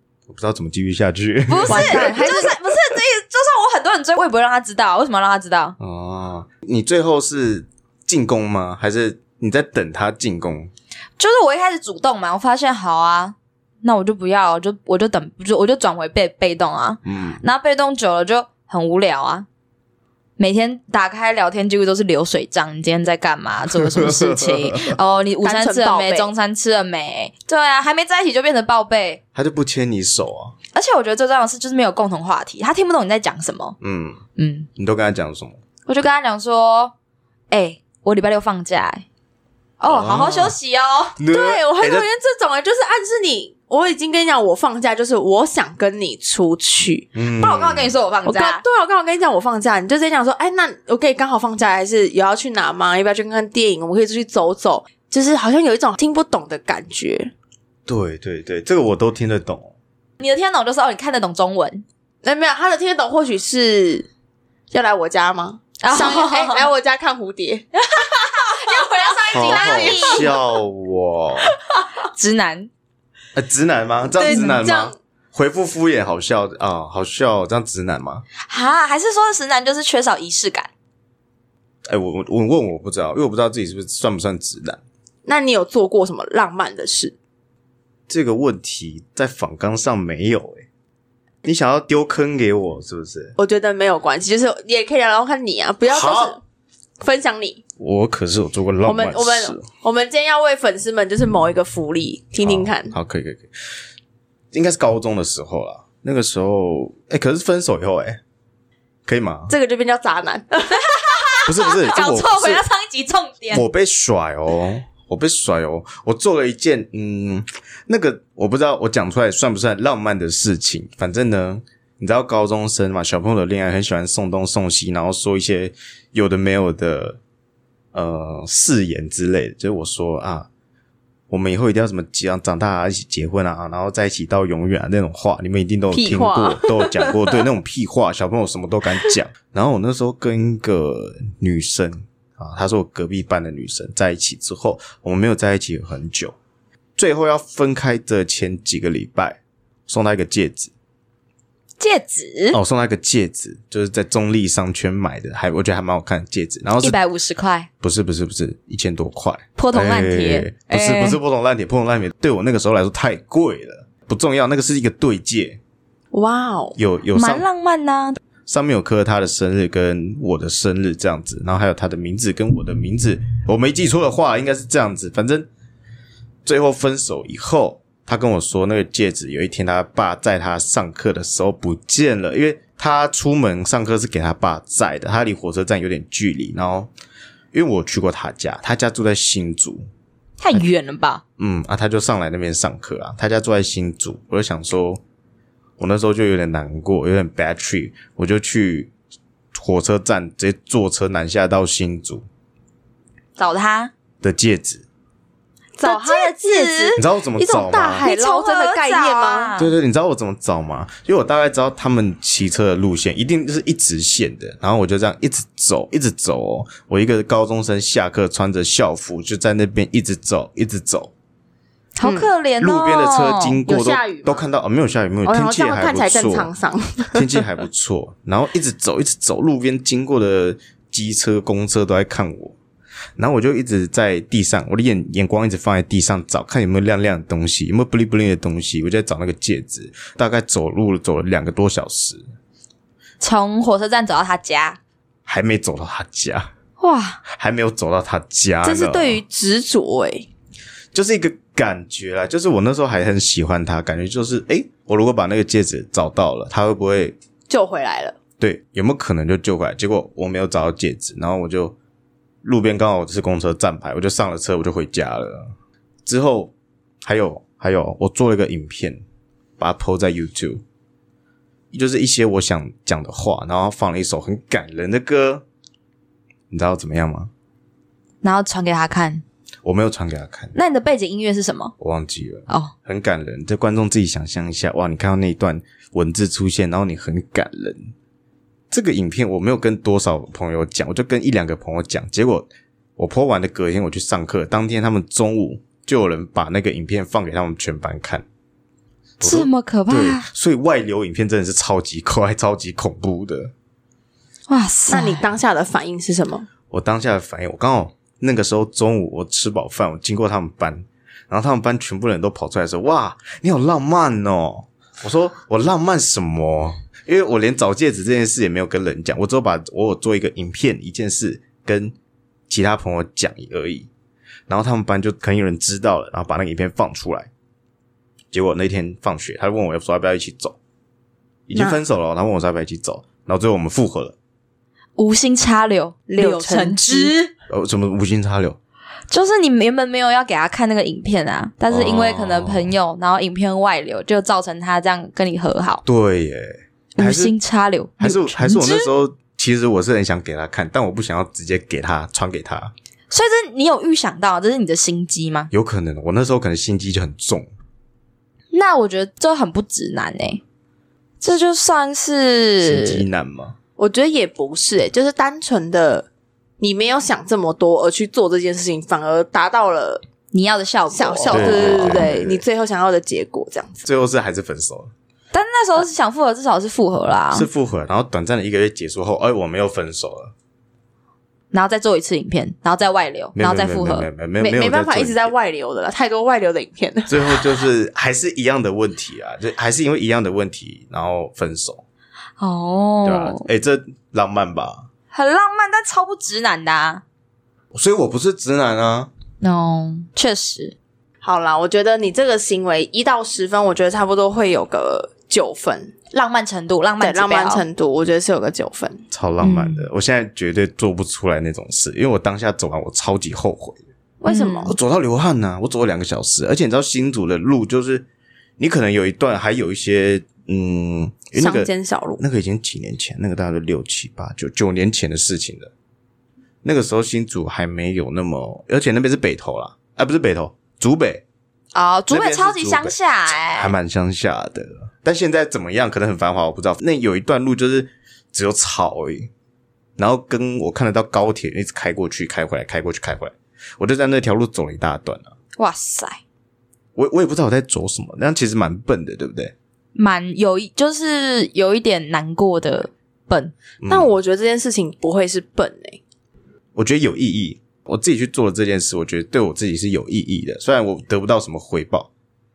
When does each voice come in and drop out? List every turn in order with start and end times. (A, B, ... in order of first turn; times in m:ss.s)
0:00.3-0:02.6 A
0:01.5-0:05.8 B
0:01.7-0:02.6 C
0:05.8-0:10.7 A
0:11.2-0:19.5 B
0:17.0-0:17.4 A
0:20.4-0:29.2 B
0:23.8-0:25.0 A
0:25.4-0:26.3 C
0:29.4-0:30.6 A
0:30.7-0:33.8 B
0:33.8-0:34.2 A
0:34.4-0:34.7 B
0:34.8-0:35.6 A
0:35.9-0:36.9 B
0:37.5-0:39.0 B
0:39.8-0:41.2 B
0:39.9-0:40.6 A
0:41.2-0:42.1 A
0:41.3-0:47.1 C
0:47.2-0:47.9 A
0:47.4-0:48.6 B
0:48.2-0:57.3 C
0:57.9-0:59.7 A
1:00.2-1:01.8 B
1:02.2-1:04.1 C
1:04.7-1:07.7 C
1:05.8-1:06.7 B
1:07.8-1:10.3 B
1:08.5-1:10.3 C
1:09.3-1:11.5 A
1:12.0-1:12.7 B
1:13.4-1:18.2 A
1:14.2-1:15.0 C
1:14.2-1:14.6 B
1:18.4-1:20.7 B
1:21.9-1:24.8 A
1:25.3-1:27.2 C
1:28.1-1:30.7 A
1:31.4-1:33.4 A
1:33.4-1:36.4 C
1:35.9-1:36.4 A
1:37.0-1:37.6 C
1:37.8-1:39.6 A
1:38.8-1:42.9 C
1:42.4-1:43.6 A
1:44.5-1:48.2 A
1:49.1-1:49.6 A
1:49.5-1:51.0 C
1:50.9-1:53.6 B
1:51.4-1:52.6 A
1:53.5-2:07.2 A
2:07.9-2:10.5 A
2:11.3-2:26.4 A
2:15.9-2:17.2 C
2:27.0-2:30.7 A
2:31.8-2:32.6 B
2:32.5-2:37.0 A
2:36.8-2:37.7 B
2:37.8-2:45.6 A
2:39.6-2:41.2 B
2:46.1-2:46.8 C
2:46.8-2:47.4 A
2:47.2-2:48.2 B
2:48.5-2:55.5 A
2:56.4-3:06.9 A
3:07.5-3:09.9 A
3:10.4-3:11.2 B
3:11.4-3:15.0 A
3:15.8-3:18.9 A
3:19.5-3:22.3 A
3:23.4-3:23.9 B
3:24.2-3:24.8 A
3:25.8-3:29.6 C
3:25.8-3:27.0 B
3:27.0-3:28.1 A
3:28.0-3:29.7 B
3:29.6-3:41.1 A
3:42.0-3:43.6 B
3:42.0-3:42.3 C
3:42.6-3:46.5 A
3:43.7-3:44.4 C
3:45.2-3:47.3 C
3:47.1-3:52.6 A
3:53.2-4:02.2 A
4:03.2-4:04.8 B
4:05.3-4:06.5 A
4:06.8-4:07.2 B
4:07.3-4:09.2 A
4:08.6-4:10.3 C
4:10.9-4:17.2 A
4:17.5-4:18.2 C
4:18.4-4:21.8 A
4:22.4-4:25.5 A
4:26.1-4:29.0 A
4:29.6-4:30.6 A
4:31.7-4:35.4 A
4:36.5-4:37.3 A
4:38.2-4:39.2 B
4:39.6-4:40.6 A
4:40.6-4:41.7 B
4:41.8-4:47.9 A
4:48.7-4:58.2 A
4:59.2-5:03.5 A
4:59.2-5:00.3 B
5:04.5-5:05.2 B
5:04.9-5:06.5 C
5:06.7-5:22.0 A
5:22.5-5:23.9 A
5:24.5-5:27.3 A
5:28.3-5:30.6 A
5:31.5-5:34.2 A
5:31.5-5:31.8 C
5:35.0-5:37.3 B
5:36.1-5:37.1 C
5:37.5-5:38.6 A
5:39.1-5:45.8 B
5:41.7-5:42.7 A
5:45.8-5:47.3 A
5:47.0-5:48.9 B
5:48.0-5:52.7 A
5:53.1-5:55.5 B
5:55.5-5:57.5 A
5:58.5-6:00.4 B
6:01.2-6:03.0 B
6:02.6-6:03.6 A
6:03.8-6:06.1 C
6:06.6-6:10.0 C
6:10.3-6:12.2 B
6:10.9-6:13.8 C
6:11.3-6:12.4 A
6:13.8-6:14.9 A
6:15.3-6:17.5 B
6:17.3-6:20.3 A
6:21.5-6:24.1 B
6:23.4-6:25.3 A
6:24.4-6:27.4 C
6:27.1-6:31.8 A
6:32.4-6:33.4 B
6:33.0-6:34.9 A
6:35.1-6:37.0 B
6:37.7-6:39.1 A
6:39.4-6:40.8 B
6:41.2-6:46.0 C
6:46.1-6:47.6 B
6:47.0-6:49.0 C
6:49.1-6:53.8 A
6:49.4-6:49.9 B
6:54.2-6:54.8 C
6:54.3-6:54.7 B
6:54.7-6:58.1 A
6:58.6-7:05.7 A
7:01.4-7:02.2 C
7:06.6-7:11.2 A
7:11.7-7:13.7 B
7:12.1-7:19.3 A
7:20.0-7:25.3 A
7:25.6-7:26.2 B
7:27.0-7:29.5 A
7:30.0-7:33.5 B
7:33.8-7:34.1 A
7:33.9-7:36.0 C
7:36.8-7:42.1 A